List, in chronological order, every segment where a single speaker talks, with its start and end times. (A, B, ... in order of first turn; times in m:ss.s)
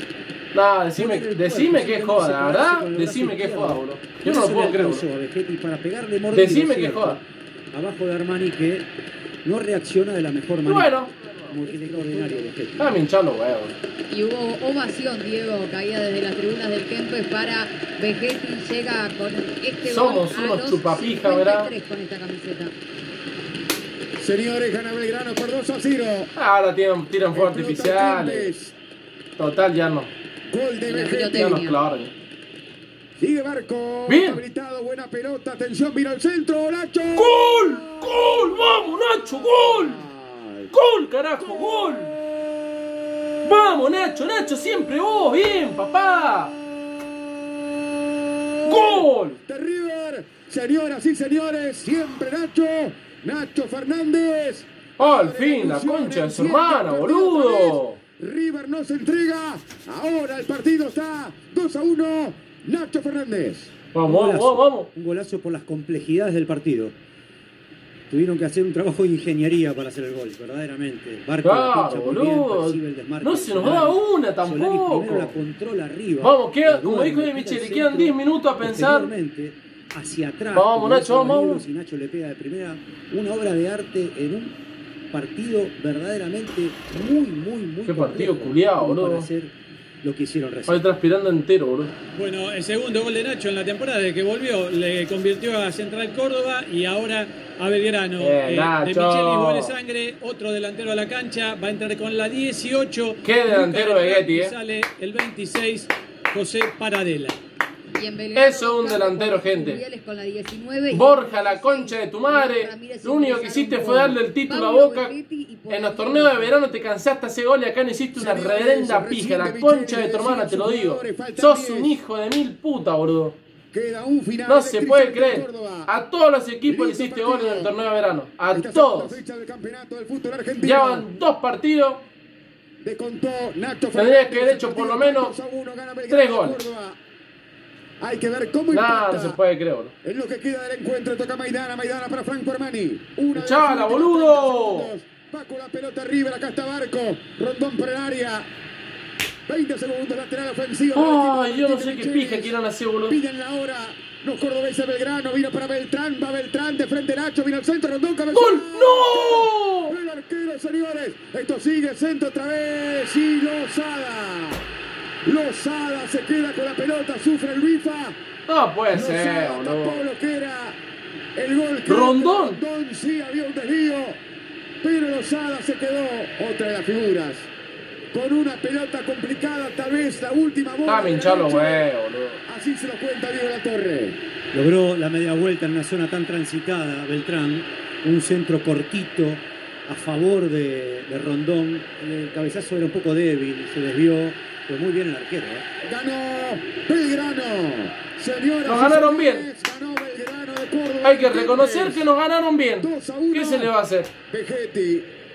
0:00.5-0:05.0 A
0:01.0-0:08.9 B
0:06.3-0:07.2 A
0:09.4-0:13.0 B
0:10.7-0:11.1 A
0:11.7-0:12.4 C
0:12.8-0:13.7 A
0:14.1-0:22.7 C
0:19.8-0:21.7 A
0:24.2-0:26.3 D
0:26.4-0:28.5 A
0:27.3-0:28.8 D
0:29.4-0:30.1 A
0:30.5-0:31.5 D
0:30.9-0:31.8 C
0:31.2-0:32.1 A
0:33.2-0:38.3 D
0:34.1-0:34.4 A
0:37.2-0:40.0 A
0:39.5-0:40.7 D
0:40.7-0:42.1 A
0:41.4-0:42.7 D
0:43.4-0:46.6 A
0:48.4-1:03.7 D
0:48.6-0:49.4 A
0:55.0-0:58.0 A
1:03.9-1:04.9 A
1:04.0-1:07.0 B
1:08.1-1:24.6 B
1:11.4-1:15.4 A
1:16.2-1:19.1 A
1:20.5-1:21.6 A
1:25.1-1:30.9 B
1:27.8-1:29.3 A
1:30.7-1:31.9 A
1:32.1-1:47.4 E
1:38.2-1:39.8 A
1:43.2-1:44.5 A
1:48.0-1:56.6 C
1:48.4-1:49.8 A
1:50.9-1:55.2 A
1:55.7-2:03.4 A
1:58.1-2:02.0 D
2:03.7-2:05.9 D
2:04.5-2:09.2 A
2:06.7-2:07.7 D
2:08.5-2:11.1 D
2:10.6-2:12.0 A
2:12.8-2:17.0 D
2:13.9-2:15.4 A
2:16.1-2:16.7 A
2:18.0-2:19.4 D
2:18.7-2:19.9 A
2:20.0-2:28.5 D
2:23.3-2:24.9 A
2:29.5-2:32.6 D
2:30.9-2:33.2 A
2:33.1-2:44.6 D
2:38.3-2:39.9 A
2:45.2-2:48.2 D
2:48.5-2:50.1 A
2:48.9-2:50.8 D
2:51.4-2:54.2 D
2:51.9-2:52.6 A
2:54.8-2:57.5 D
2:58.1-3:01.9 D
3:00.8-3:02.4 A
3:02.5-3:04.2 D
3:04.5-3:15.7 B
3:15.8-3:22.1 D
3:18.7-3:19.5 A
3:21.0-3:24.1 A
3:22.8-3:23.7 D
3:24.3-3:25.1 D